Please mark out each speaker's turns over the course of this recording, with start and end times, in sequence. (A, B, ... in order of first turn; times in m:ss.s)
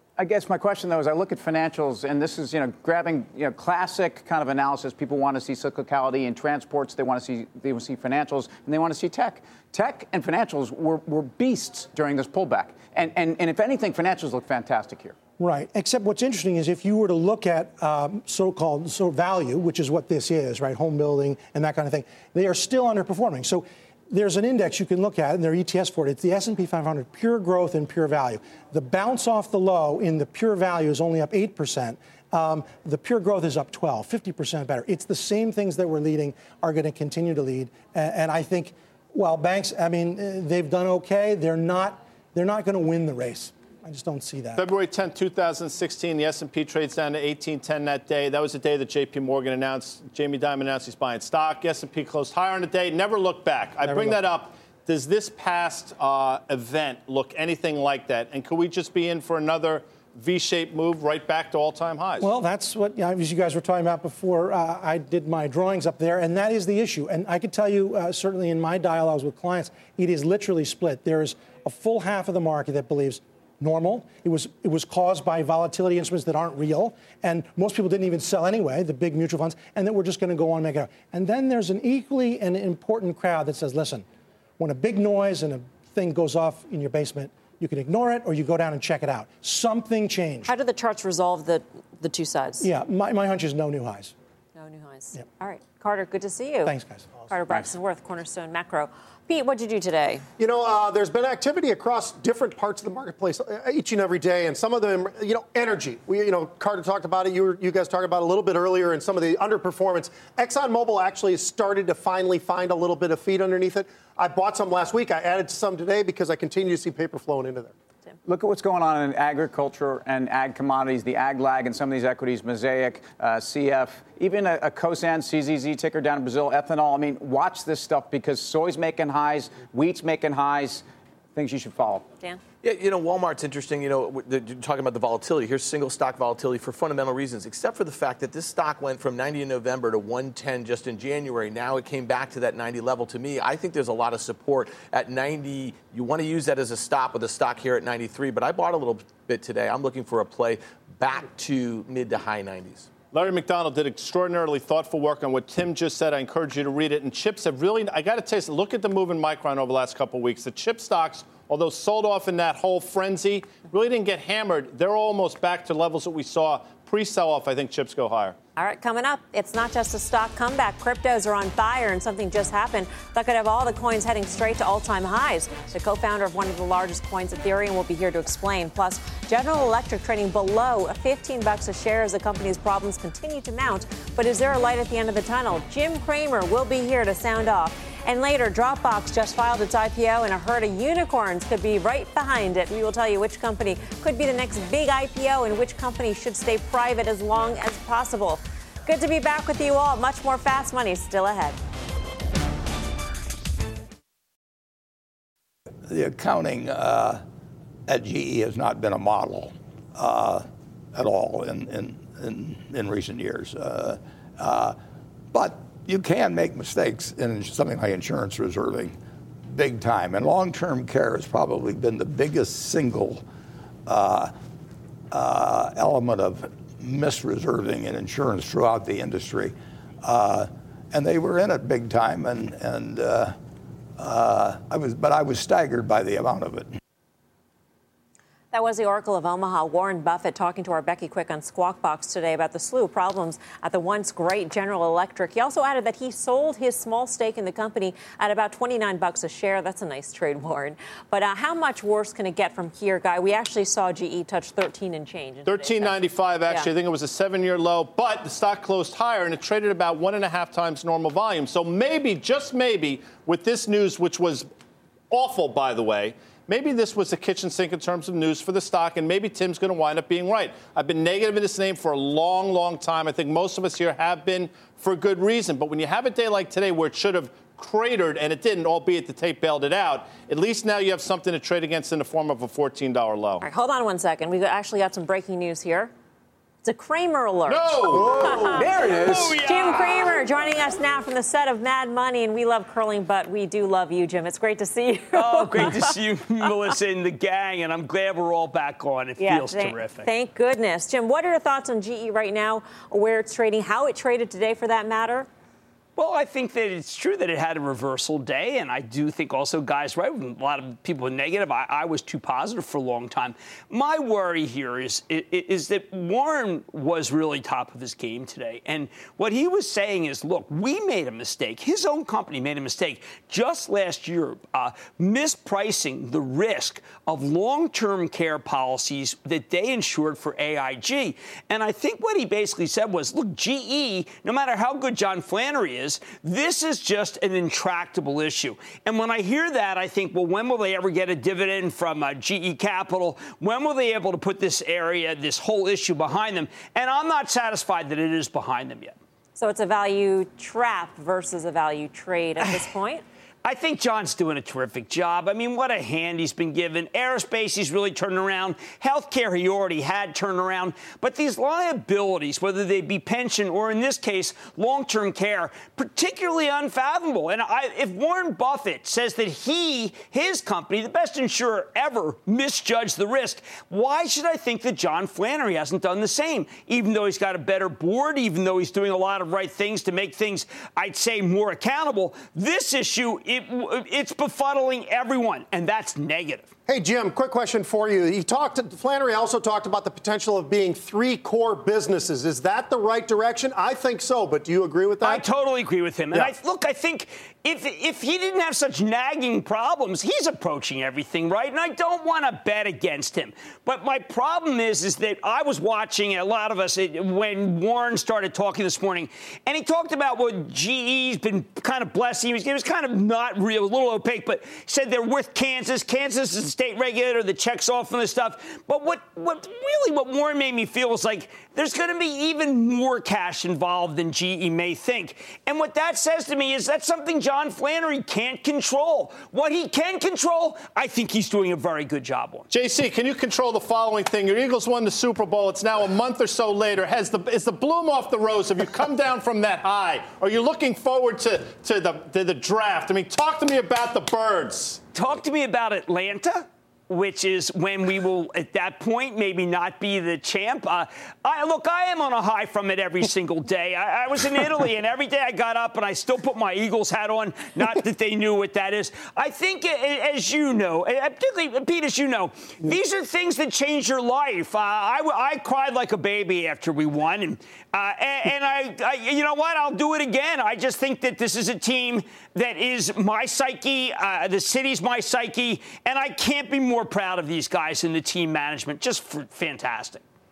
0:00.2-0:15.2 A
0:15.4-0:44.6 B
0:44.6-1:02.3 C
0:53.8-0:54.2 B
1:02.2-1:24.0 B
1:24.6-1:30.5 B
1:30.5-1:32.7 D
1:32.6-1:34.1 B
1:34.6-1:36.8 D
1:36.6-1:37.1 B
1:37.3-1:40.2 D
1:40.4-1:57.7 E
1:58.3-2:12.1 A
2:12.6-2:32.9 F
2:33.1-2:48.4 C
2:48.6-3:21.6 D
3:25.9-3:27.2 G
3:27.9-3:34.8 G
3:35.3-3:39.0 G
3:39.5-3:43.2 G
3:43.9-3:44.3 G
3:45.1-3:53.4 G
3:54.0-3:56.7 G
3:58.5-4:16.0 D
4:15.4-4:24.5 C
4:25.1-4:43.4 C
4:43.4-4:45.9 D
4:46.6-4:48.7 D
4:47.5-4:49.4 C
4:48.1-4:48.4 E
4:48.5-4:49.5 A
4:49.3-4:55.9 D
4:55.1-5:00.0 H
4:59.2-5:05.3 D
5:06.0-5:49.0 H
5:49.4-5:53.0 D
5:53.4-6:26.5 H
6:26.7-6:35.3 E
6:35.0-7:12.5 H
7:12.5-7:24.8 C
7:24.9-8:00.0 H